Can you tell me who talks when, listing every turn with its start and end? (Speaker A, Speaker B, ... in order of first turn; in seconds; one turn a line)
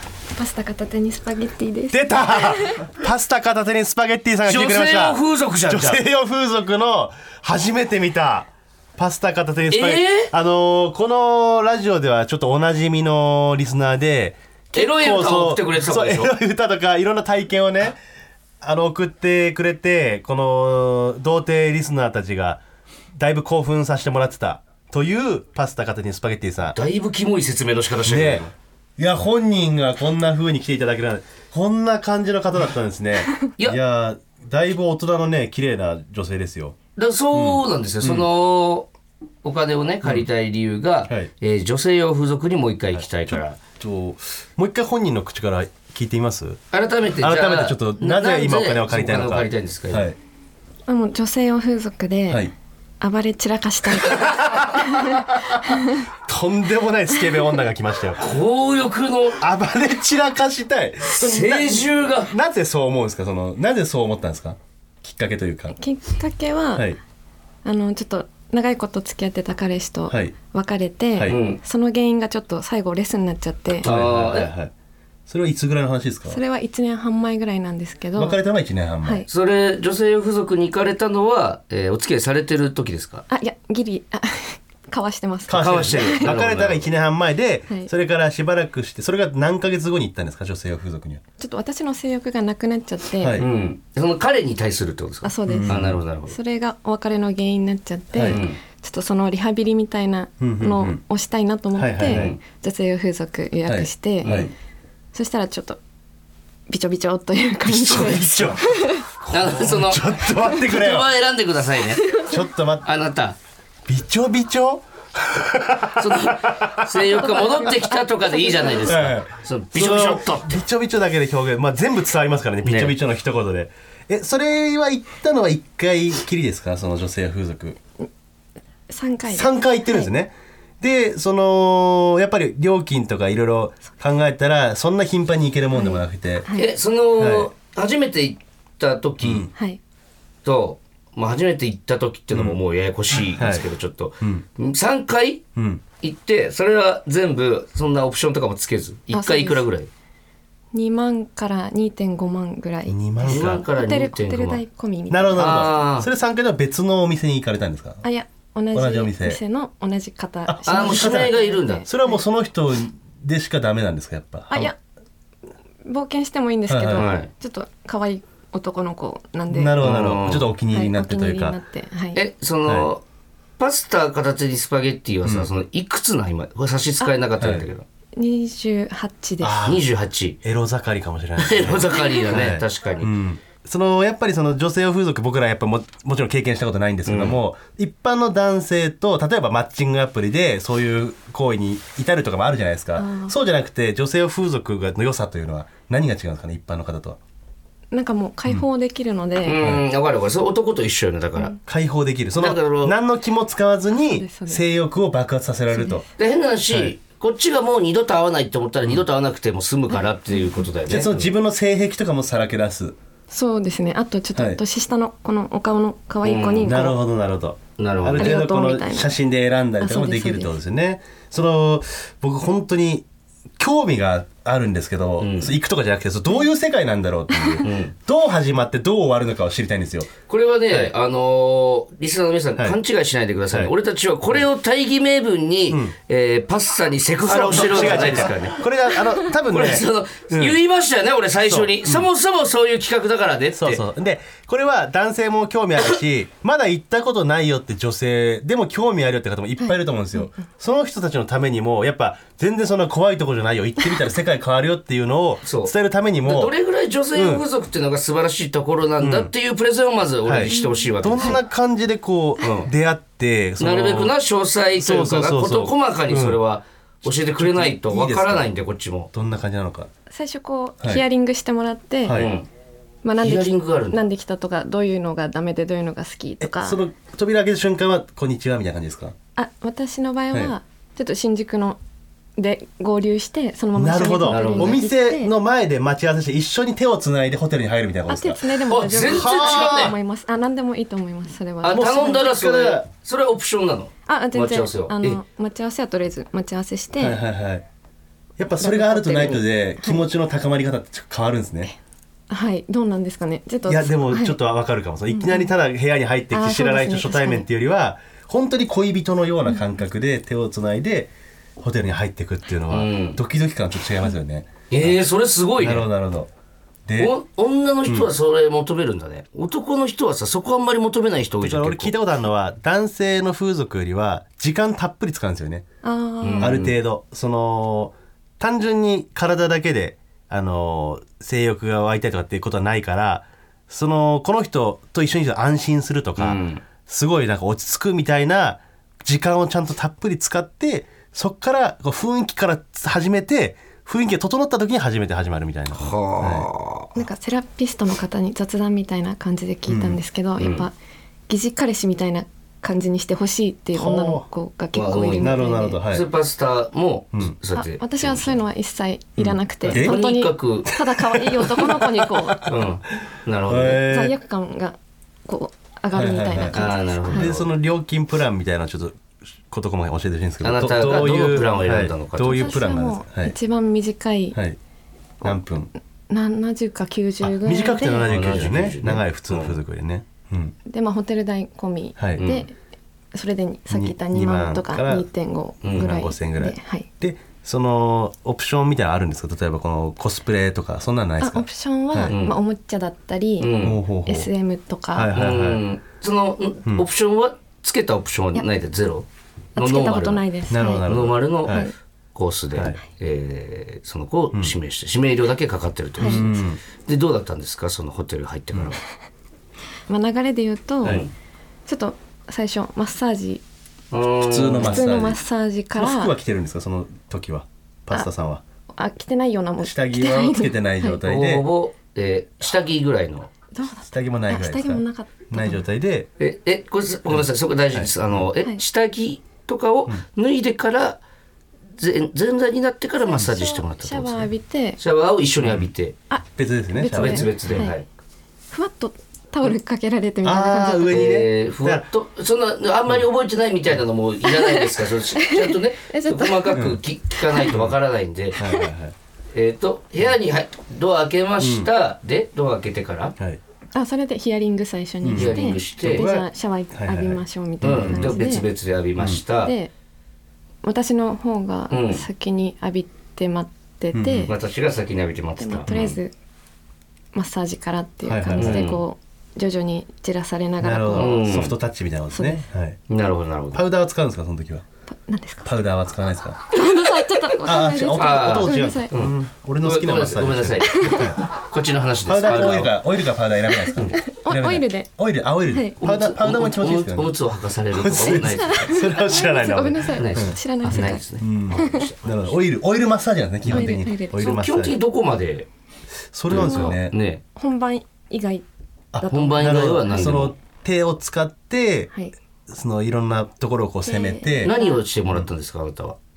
Speaker A: 0.3-2.9
Speaker B: 1.9-18.0
Speaker C: 4.5-6.0
Speaker C: 9.7-10.3
Speaker C: 14.7-16.3
Speaker B: 18.6-22.6
Speaker B: 23.1-26.8
Speaker C: 26.7-28.5
Speaker B: 28.1-36.8
Speaker C: 37.0-38.9
Speaker B: 37.3-38.3
Speaker C: 39.4-43.6
Speaker B: 43.0-46.6
Speaker C: 46.7-50.1
Speaker B: 47.2-50.2
Speaker A: 50.9-56.0
Speaker B: 54.0-55.2
Speaker B: 56.2-58.2
Speaker C: 58.2-59.4
Speaker B: 59.4-65.8
Speaker C: 61.1-62.3
Speaker A: 65.7-67.0
Speaker A: 67.6-73.9
Speaker B: 70.1-70.3
Speaker C: 71.3-71.6
Speaker C: 73.8-74.5
Speaker B: 73.8-74.7
Speaker B: 75.3-76.4
Speaker A: 76.3-78.4
Speaker B: 78.2-79.3
Speaker C: 79.3-83.2
Speaker A: 83.3-86.3
Speaker B: 85.5-91.2
Speaker C: 85.5-86.9
Speaker A: 91.4-93.5
Speaker B: 93.2-93.5
Speaker C: 93.4-96.4
Speaker A: 95.2-104.5
Speaker B: 95.5-96.0
Speaker B: 98.1-98.4
Speaker C: 98.2-98.6
Speaker B: 100.4-101.0
Speaker B: 101.8-102.3
Speaker C: 102.1-102.4
Speaker B: 103.7-104.5
Speaker C: 104.2-104.5
Speaker A: 105.1-105.8
Speaker A: 106.7-109.1
Speaker B: 107.7-111.1
Speaker C: 109.3-112.2
Speaker A: 112.0-112.4
Speaker B: 112.2-112.9
Speaker C: 112.8-113.4
Speaker B: 113.9-116.9
Speaker C: 116.0-120.6
Speaker A: 117.1-119.0
Speaker B: 118.9-127.8
Speaker C: 122.6-123.0
Speaker A: 128.9-130.1
Speaker B: 129.3-136.5
Speaker A: 135.7-136.7
Speaker C: 136.6-139.5
Speaker B: 137.2-137.5
Speaker B: 139.2-139.5
Speaker A: 139.5-139.8
Speaker C: 140.4-145.4
Speaker B: 142.3-142.6
Speaker B: 143.3-143.7
Speaker B: 145.6-145.8
Speaker C: 146.0-149.9
Speaker A: 149.1-149.6
Speaker A: 150.7-155.8
Speaker B: 152.9-153.6
Speaker C: 153.3-154.6
Speaker B: 155.1-158.0
Speaker C: 155.4-156.1
Speaker A: 158.0-162.2
Speaker B: 158.7-159.4
Speaker B: 160.4-164.7
Speaker C: 160.7-161.9
Speaker A: 164.5-164.8
Speaker A: 165.8-169.9
Speaker B: 166.7-167.1
Speaker C: 167.0-167.3
Speaker B: 169.5-171.6
Speaker C: 169.8-170.5
Speaker A: 170.7-172.2
Speaker C: 172.1-173.0
Speaker C: 173.6-177.9
Speaker B: 175.2-175.5
Speaker B: 177.4-177.6
Speaker A: 178.2-179.6
Speaker B: 179.4-179.9
Speaker C: 179.6-180.4
Speaker B: 180.4-197.2
Speaker C: 181.4-183.1
Speaker C: 187.1-187.4
Speaker A: 193.0-193.4
Speaker A: 197.9-199.6
Speaker C: 199.4-201.6
Speaker B: 201.6-206.1
Speaker C: 202.4-203.0
Speaker A: 203.9-204.6
Speaker A: 205.7-206.1
Speaker C: 206.2-211.3
Speaker B: 206.7-206.9
Speaker A: 209.9-210.3
Speaker B: 210.9-213.0
Speaker A: 213.3-217.0
Speaker B: 214.3-214.6
Speaker C: 216.2-216.8
Speaker B: 216.6-223.1
Speaker C: 217.8-218.4
Speaker A: 218.2-219.2
Speaker A: 219.8-220.6
Speaker B: 223.6-230.1
Speaker C: 225.2-225.5
Speaker A: 227.3-227.6
Speaker C: 227.6-227.9
Speaker C: 230.3-238.6
Speaker B: 237.2-240.6
Speaker C: 239.5-243.8
Speaker B: 241.5-242.1
Speaker B: 243.6-256.5
Speaker A: 249.6-250.4
Speaker C: 255.4-261.4
Speaker B: 257.1-257.4
Speaker B: 259.0-259.3
Speaker B: 260.2-264.1
Speaker A: 260.5-261.4
Speaker C: 262.4-262.7
Speaker C: 263.6-269.1
Speaker B: 264.8-266.4
Speaker B: 267.2-268.5
Speaker B: 269.1-269.9
Speaker A: 270.1-272.3
Speaker B: 272.1-272.3
Speaker C: 272.1-272.5
Speaker A: 273.0-276.8
Speaker C: 273.2-274.0
Speaker B: 276.4-279.1
Speaker A: 279.4-281.8
Speaker A: 282.4-285.3
Speaker B: 283.8-288.5
Speaker C: 284.3-284.8
Speaker A: 288.1-292.3
Speaker C: 288.7-289.9
Speaker B: 289.0-289.9
Speaker C: 291.6-295.2
Speaker B: 291.7-292.9
Speaker A: 294.1-297.2
Speaker B: 297.0-297.6
Speaker B: 298.4-301.7
Speaker A: 298.6-300.1
Speaker A: 302.3-304.4
Speaker B: 303.7-315.0
Speaker A: 305.1-305.5
Speaker A: 306.3-307.5
Speaker C: 312.7-313.2
Speaker C: 314.7-315.9
Speaker B: 315.6-316.3
Speaker B: 316.9-317.1
Speaker C: 317.0-321.9
Speaker B: 321.4-325.7
Speaker A: 325.8-326.6
Speaker C: 326.2-326.8
Speaker B: 326.4-346.5
Speaker C: 336.2-336.6
Speaker C: 345.8-346.9
Speaker A: 346.9-350.8
Speaker B: 349.7-350.0
Speaker C: 350.4-350.7
Speaker A: 351.3-355.8
Speaker B: 353.8-354.3
Speaker C: 354.7-355.4
Speaker B: 355.2-356.1
Speaker C: 355.9-358.4
Speaker A: 357.5-362.4
Speaker B: 359.2-360.0
Speaker C: 359.6-360.8
Speaker B: 360.8-362.6
Speaker C: 362.4-363.9
Speaker B: 363.5-364.2
Speaker A: 363.8-367.4
Speaker B: 365.9-373.4
Speaker C: 366.5-367.5
Speaker C: 370.4-372.6
Speaker A: 372.3-374.4
Speaker B: 374.3-374.6
Speaker B: 375.2-375.7
Speaker A: 376.1-378.2
Speaker B: 377.2-380.6
Speaker C: 378.1-379.6
Speaker A: 380.7-382.5
Speaker B: 382.0-382.3
Speaker C: 382.2-382.5
Speaker A: 383.1-386.9
Speaker B: 383.7-385.1
Speaker C: 385.6-385.9
Speaker B: 385.7-392.1
Speaker A: 391.2-395.1
Speaker C: 392.1-392.4
Speaker C: 393.4-393.8
Speaker B: 393.6-394.3
Speaker B: 394.9-395.6
Speaker C: 395.1-400.2
Speaker A: 399.6-400.9
Speaker B: 400.5-401.7
Speaker C: 400.9-408.8
Speaker A: 401.4-401.7
Speaker B: 402.5-402.8
Speaker A: 406.0-406.3
Speaker B: 406.0-406.6
Speaker A: 409.9-411.1
Speaker C: 410.8-411.1
Speaker A: 411.7-413.4
Speaker C: 413.9-414.9
Speaker B: 414.2-415.2
Speaker A: 414.6-416.2
Speaker B: 415.8-418.4
Speaker A: 418.7-421.0
Speaker B: 419.6-421.5
Speaker C: 421.1-423.3
Speaker A: 423.5-425.6
Speaker B: 423.9-426.1
Speaker C: 426.2-431.0
Speaker B: 427.7-428.2
Speaker C: 431.8-436.0
Speaker A: 433.1-434.8
Speaker A: 436.1-437.8
Speaker B: 436.4-437.7
Speaker C: 436.9-437.9
Speaker A: 438.5-441.1
Speaker B: 440.2-441.9
Speaker C: 440.9-448.4
Speaker A: 444.2-447.5
Speaker B: 446.5-446.8
Speaker B: 448.4-448.9
Speaker A: 448.4-448.7
Speaker C: 449.3-453.1
Speaker B: 451.4-451.7
Speaker A: 453.7-458.5
Speaker B: 455.0-458.2
Speaker C: 455.1-456.1
Speaker C: 457.6-459.5
Speaker A: 459.3-459.7
Speaker A: 460.6-464.3
Speaker C: 461.7-462.1
Speaker B: 463.9-464.3
Speaker C: 464.3-466.0
Speaker A: 465.4-466.1
Speaker A: 467.1-471.2
Speaker B: 468.1-468.7
Speaker C: 468.4-468.8
Speaker B: 470.6-472.8
Speaker C: 471.0-471.6
Speaker A: 472.1-472.5
Speaker C: 472.9-473.6
Speaker B: 473.5-474.6
Speaker A: 474.9-475.5
Speaker B: 475.4-476.5
Speaker A: 476.5-478.9
Speaker B: 477.4-481.2
Speaker C: 477.9-482.8
Speaker A: 480.8-481.1
Speaker B: 482.1-487.2
Speaker A: 483.9-484.9
Speaker A: 485.5-485.8
Speaker C: 485.8-488.7
Speaker B: 487.7-494.8
Speaker A: 488.1-491.0
Speaker C: 489.9-492.3
Speaker A: 491.6-491.9
Speaker A: 493.4-494.4
Speaker C: 493.5-495.5
Speaker B: 496.1-496.9
Speaker C: 496.3-497.2
Speaker A: 496.4-496.8
Speaker A: 497.4-498.5
Speaker B: 498.9-501.9
Speaker A: 499.0-499.6
Speaker C: 499.1-500.4
Speaker B: 502.5-504.5
Speaker A: 503.9-504.8
Speaker C: 504.4-506.0